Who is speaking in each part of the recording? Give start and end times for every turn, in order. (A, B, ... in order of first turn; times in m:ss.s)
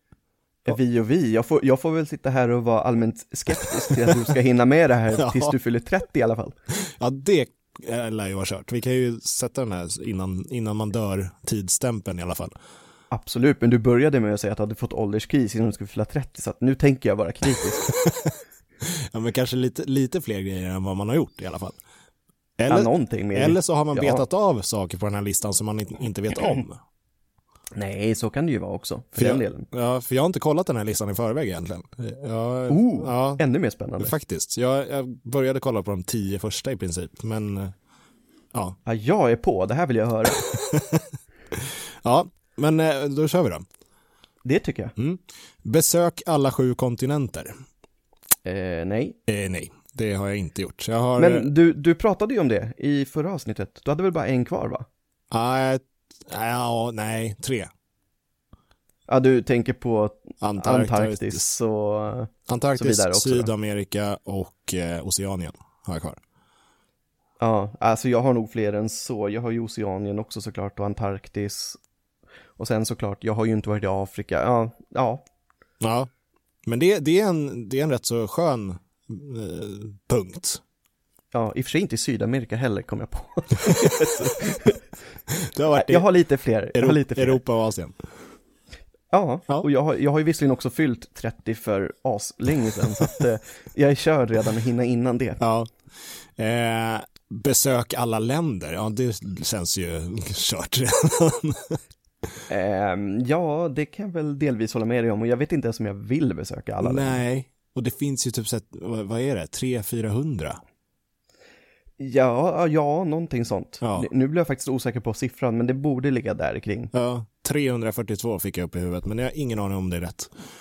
0:00.7-0:06.6 A
0:03.9-0:04.2 B
0:05.2-0:05.6 B
0:06.7-0:12.5 B
0:13.1-0:17.9 A
0:17.8-0:21.8 B
0:22.6-0:26.8 B
0:22.7-0:24.3 A
0:27.8-0:29.7 A
0:29.2-0:33.4 B
0:32.7-0:34.1 A
0:34.0-0:37.7 B
0:38.9-0:40.4 A
0:40.4-0:43.6 B
0:44.4-0:44.9 A
0:45.0-0:47.5 B
0:48.4-0:49.2 A
0:49.3-0:51.5 B
0:51.2-0:54.9 A
0:55.3-0:57.7 B
0:59.1-1:03.5 A
1:00.4-1:01.4 B
1:02.5-1:06.2 B
1:07.4-1:11.8 A
1:12.6-1:15.2 A
1:15.8-1:16.1 B
1:16.7-1:20.6 B
1:21.3-1:24.8 A
1:23.6-1:24.6 B
1:25.3-1:26.1 B
1:25.7-1:27.4 A
1:26.7-1:28.0 B
1:29.1-1:35.4 A
1:35.4-1:35.7 B
1:36.4-1:41.8 B
1:42.5-1:47.2 A
1:46.8-1:50.6 B
1:52.0-1:56.9 A
1:53.8-1:54.1 B
1:56.9-2:00.3 B